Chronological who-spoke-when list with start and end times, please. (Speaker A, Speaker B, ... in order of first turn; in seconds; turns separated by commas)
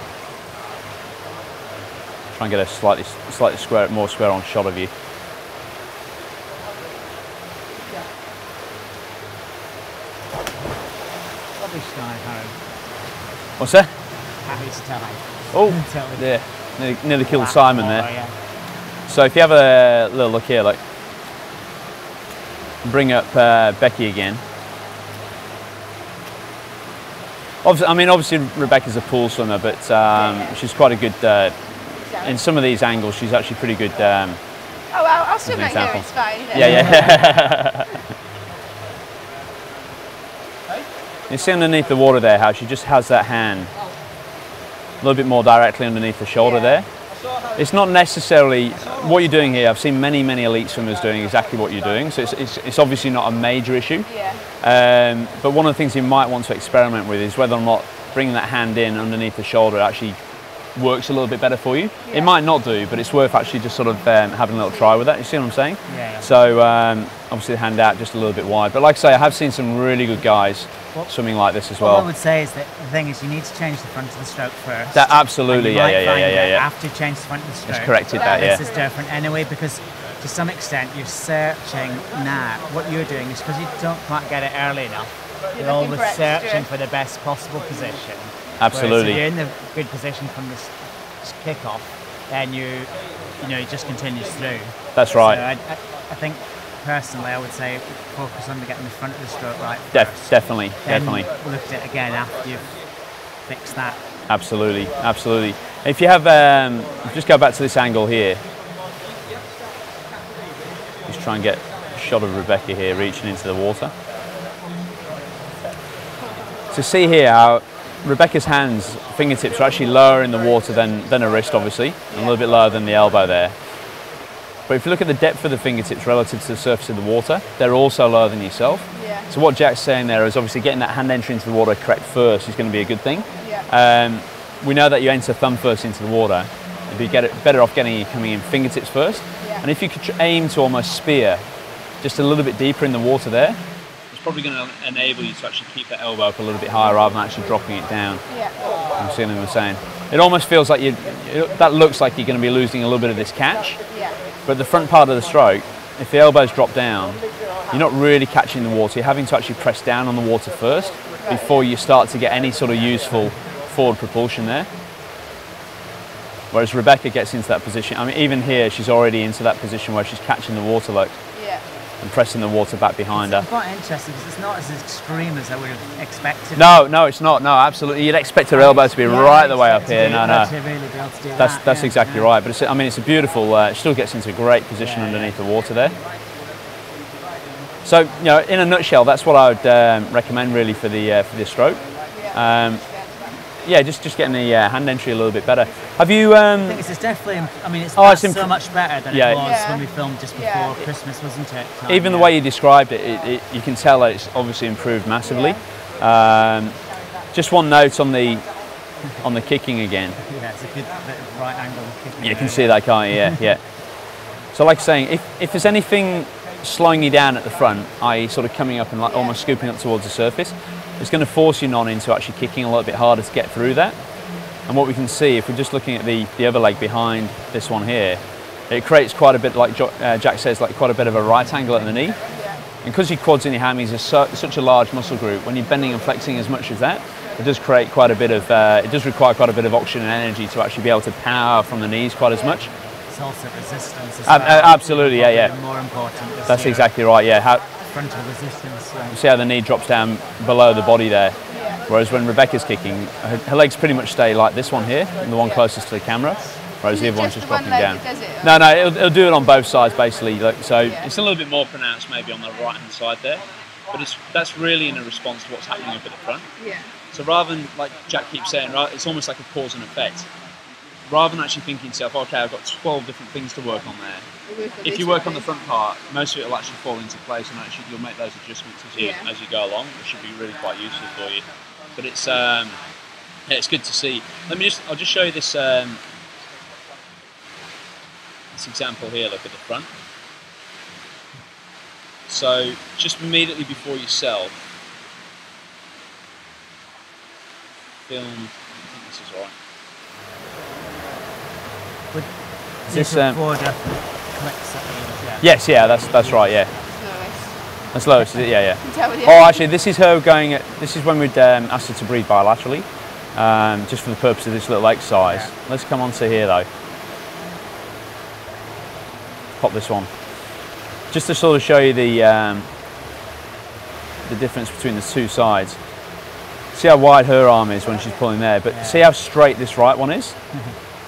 Speaker A: 2.4-4.9, Speaker B: 11.6-12.6, Speaker A: 13.6-13.9, Speaker B: 14.4-16.3, Speaker A: 15.5-18.1, Speaker B: 17.2-18.4, Speaker A: 19.1-20.8, Speaker A: 22.8-24.4, Speaker A: 27.6-31.5, Speaker C: 30.1-30.6, Speaker C: 32.1-32.4, Speaker A: 32.1-34.4, Speaker C: 34.9-37.4, Speaker A: 35.4-37.9, Speaker B: 36.5-37.2, Speaker A: 41.3-43.7, Speaker A: 45.0-46.9, Speaker C: 46.4-46.8, Speaker A: 47.5-54.1, Speaker C: 54.0-54.4, Speaker A: 54.6-60.2, Speaker A: 60.8-72.0, Speaker B: 65.9-66.3, Speaker B: 71.8-102.8, Speaker A: 74.9-76.6, Speaker A: 77.7-78.6, Speaker C: 78.1-78.9, Speaker C: 85.5-86.7, Speaker A: 88.6-89.2, Speaker A: 94.9-95.4, Speaker A: 99.9-101.3, Speaker B: 103.5-104.0, Speaker A: 104.3-108.4, Speaker A: 111.1-113.9, Speaker A: 116.7-123.5, Speaker C: 122.1-122.4, Speaker A: 124.7-141.4, Speaker C: 128.9-129.3, Speaker C: 133.4-133.7, Speaker A: 142.0-143.6, Speaker A: 144.1-148.2, Speaker C: 148.3-148.6, Speaker A: 149.0-153.8, Speaker C: 153.9-154.2, Speaker A: 154.5-164.7, Speaker C: 161.2-161.7, Speaker A: 166.5-171.2, Speaker C: 171.3-171.6, Speaker A: 172.0-173.4, Speaker B: 173.1-176.8, Speaker A: 176.5-180.5, Speaker B: 178.5-182.3, Speaker A: 181.3-186.0, Speaker B: 184.8-185.3, Speaker A: 187.8-192.8, Speaker C: 192.1-193.3, Speaker A: 193.6-196.8, Speaker B: 196.5-202.3, Speaker A: 197.9-198.5, Speaker A: 199.1-199.4, Speaker C: 199.3-200.8, Speaker A: 201.9-206.8, Speaker C: 205.2-205.6, Speaker A: 207.3-208.4, Speaker A: 209.2-210.2, Speaker B: 210.2-213.4, Speaker A: 212.2-213.6, Speaker A: 214.5-223.9, Speaker C: 219.1-219.3, Speaker A: 224.7-232.2, Speaker C: 232.2-232.6, Speaker A: 232.8-242.7, Speaker B: 243.1-246.9, Speaker A: 244.2-245.5, Speaker A: 246.5-247.6, Speaker B: 247.8-249.2, Speaker A: 249.1-266.5, Speaker C: 251.5-251.8, Speaker C: 255.4-255.6, Speaker C: 256.9-258.6, Speaker C: 260.8-261.1, Speaker C: 266.6-266.9, Speaker A: 267.1-270.3, Speaker A: 271.1-274.3, Speaker C: 274.4-275.5, Speaker A: 274.8-281.4, Speaker C: 278.9-279.3, Speaker A: 281.9-282.8, Speaker A: 283.5-286.0, Speaker A: 288.5-289.9, Speaker A: 292.3-294.6, Speaker A: 298.1-299.5, Speaker B: 302.8-306.8, Speaker A: 302.9-303.4, Speaker A: 305.4-306.7, Speaker C: 306.9-307.6, Speaker A: 307.9-316.7, Speaker C: 308.8-309.6, Speaker B: 315.2-315.5, Speaker A: 319.6-320.1, Speaker A: 321.1-322.7, Speaker A: 324.2-325.8, Speaker A: 326.7-330.3, Speaker C: 327.8-328.2, Speaker B: 328.6-329.0